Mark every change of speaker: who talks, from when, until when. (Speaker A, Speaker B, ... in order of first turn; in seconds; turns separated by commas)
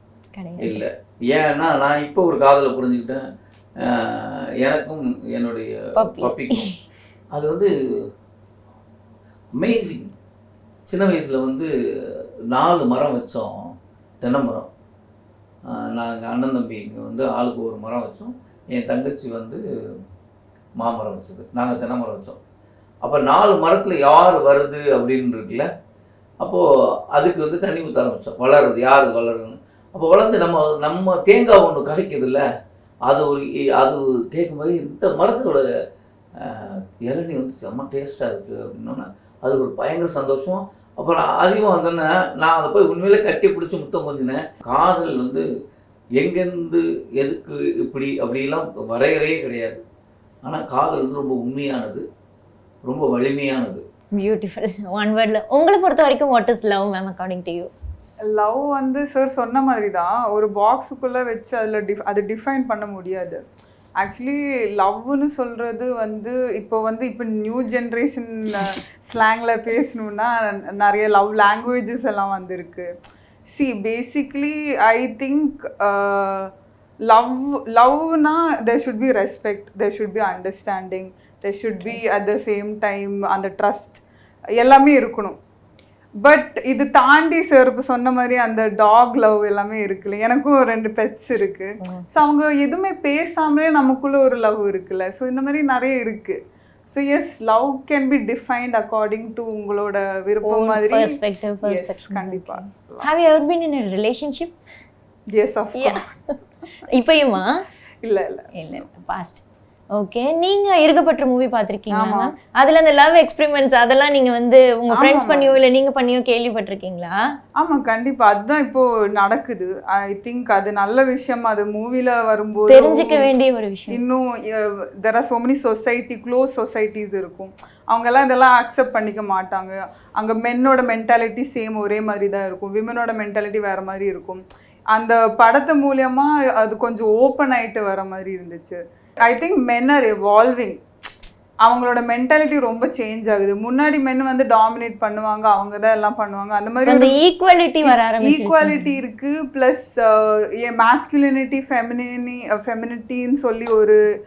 Speaker A: 0.3-0.8, Speaker B: 0.6-3.2, Speaker B: 3.8-6.7, Speaker A: 6.0-6.8, Speaker B: 7.3-7.7, Speaker B: 9.6-10.1, Speaker B: 10.9-11.7, Speaker B: 12.5-13.5, Speaker B: 14.2-14.7, Speaker B: 15.7-19.6, Speaker B: 20.8-22.4, Speaker B: 23.0-25.7, Speaker B: 26.4-32.4, Speaker B: 33.1-35.6, Speaker B: 36.4-45.5, Speaker B: 46.2-49.8, Speaker B: 50.5-52.0, Speaker B: 52.9-53.8, Speaker A: 54.2-57.7, Speaker C: 58.2-63.4, Speaker C: 64.0-72.9, Speaker C: 73.5-76.5, Speaker C: 77.1-84.0, Speaker C: 84.6-85.4, Speaker C: 86.2-96.4, Speaker C: 96.9-101.1, Speaker A: 100.5-104.5, Speaker C: 101.7-103.1, Speaker C: 105.3-106.0, Speaker A: 105.8-106.3, Speaker A: 106.9-107.5, Speaker C: 108.0-108.5, Speaker A: 108.6-109.4, Speaker A: 110.0-117.2, Speaker C: 111.9-112.3, Speaker C: 114.9-115.6, Speaker C: 117.6-123.3, Speaker A: 122.7-124.0, Speaker C: 123.9-140.8, Speaker C: 141.7-147.1, Speaker A: 146.9-148.9, Speaker C: 147.8-154.0